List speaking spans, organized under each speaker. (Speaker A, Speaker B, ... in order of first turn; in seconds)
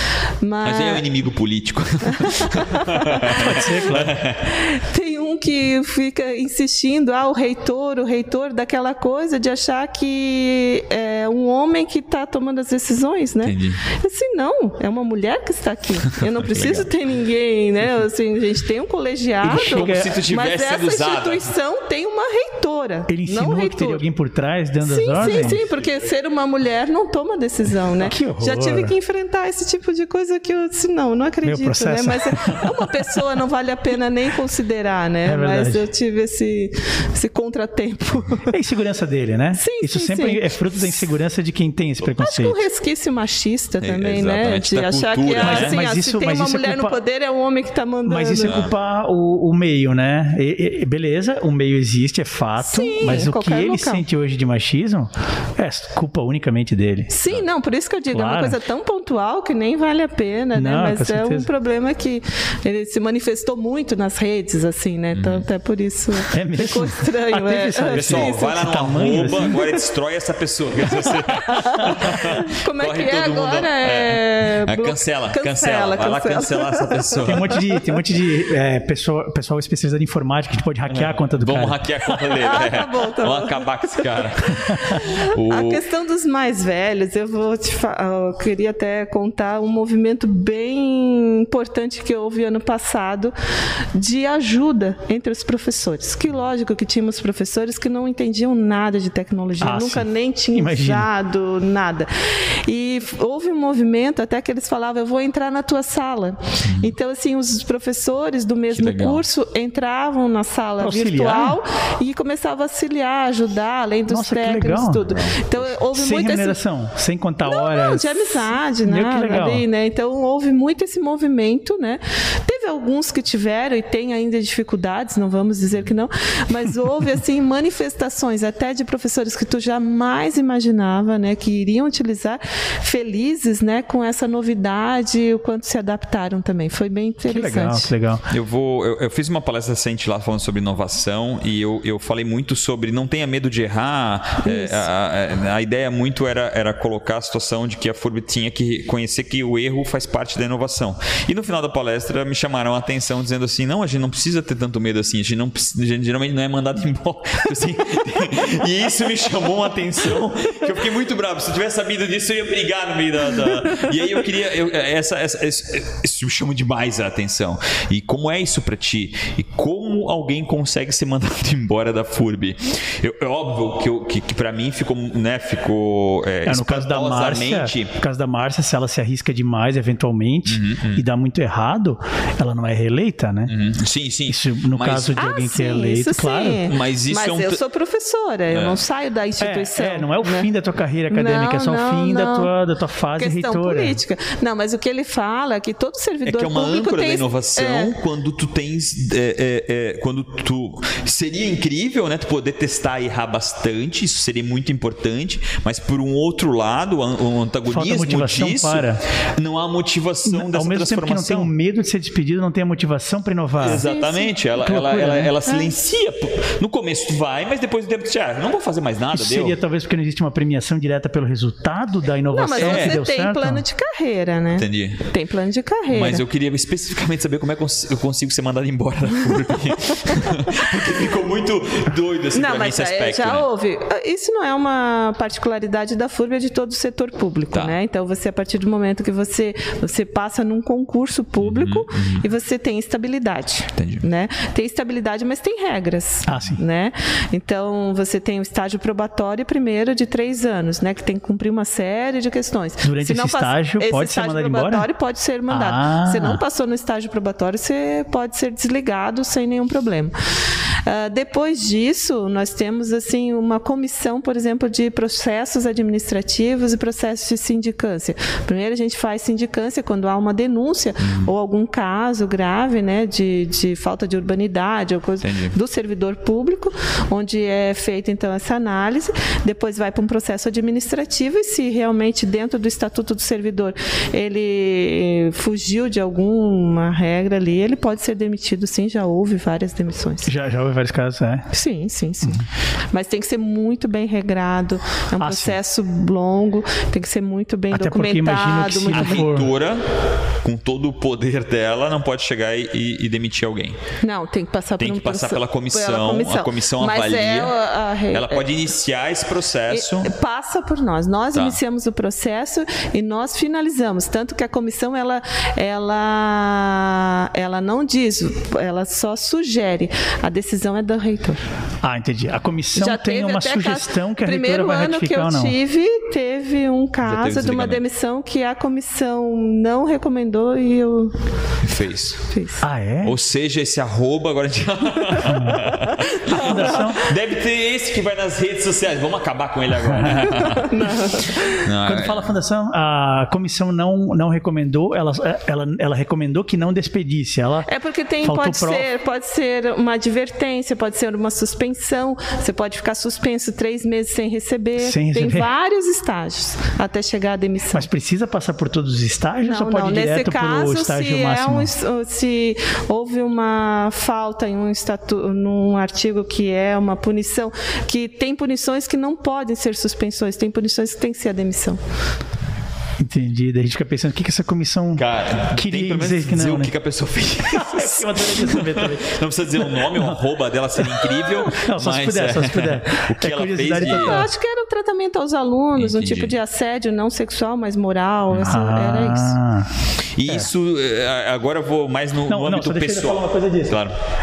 Speaker A: 0.4-1.0, 2.1-3.6, 4.5-24.0, 24.8-38.5, 39.6-41.0, 42.2-48.6, 52.6-54.0, 57.1-68.8, 69.4-69.7, 71.1-77.8, 82.4-84.3, 84.9-93.3, 94.0-116.6, 117.4-137.9, 144.4-144.9, 185.2-190.5, 191.1-192.5, 193.2-197.9, 213.7-214.3, 215.5-215.7, 222.3-226.2, 232.3-260.1, 260.9-290.3, 291.5-299.2, 304.0-308.5, 309.7-321.4, 322.8-331.1, 332.3-332.6, 335.8-336.9, 340.2-341.7, 347.7-357.9, 359.4-371.8, 383.8-389.4
Speaker B: 0.6-4.4, 13.4-13.8, 16.1-16.9, 19.5-21.5, 25.2-25.7, 43.8-45.8, 48.4-48.7, 65.2-65.5, 67.9-77.5, 80.9-85.8, 106.6-106.9, 108.7-109.2, 115.0-115.7, 138.3-177.9, 180.5-181.0, 183.5-185.2, 186.7-187.6, 188.5-188.8, 196.2-211.5, 213.6-219.6, 222.6-223.0, 224.6-225.1, 225.9-233.5, 241.4-242.2, 243.8-244.1, 271.0-271.3, 275.2-275.6, 298.9-303.8, 304.8-307.6, 308.1-310.1, 327.0-327.8, 331.6-332.3, 333.0-342.3, 375.0-384.3, 385.8-386.3, 390.2-394.0
Speaker C: 3.3-4.2, 19.4-20.1, 23.1-25.6, 28.0-28.9, 31.4-32.9, 35.2-35.9, 38.5-42.6, 45.4-47.0, 48.1-57.1, 58.1-58.6, 60.5-61.5, 66.3-69.6, 77.3-82.2, 84.7-85.0, 99.6-101.1, 110.8-111.6, 114.1-115.0, 115.9-119.7, 137.3-138.2, 176.5-183.5, 184.3-186.6, 189.4-194.0, 207.7-209.0, 210.3-213.8, 214.6-215.3, 219.1-223.6, 246.3-246.6, 252.8-254.9, 255.5-256.4, 290.3-291.5, 295.2-295.6, 297.7-299.5, 321.8-325.6, 332.6-333.2, 335.3-335.7, 336.3-337.1, 339.9-340.3, 341.9-347.7, 348.2-348.9, 354.8-355.5, 357.7-361.7, 373.0-376.7, 377.3-380.2, 380.8-384.3, 388.4-390.5, 392.3-393.8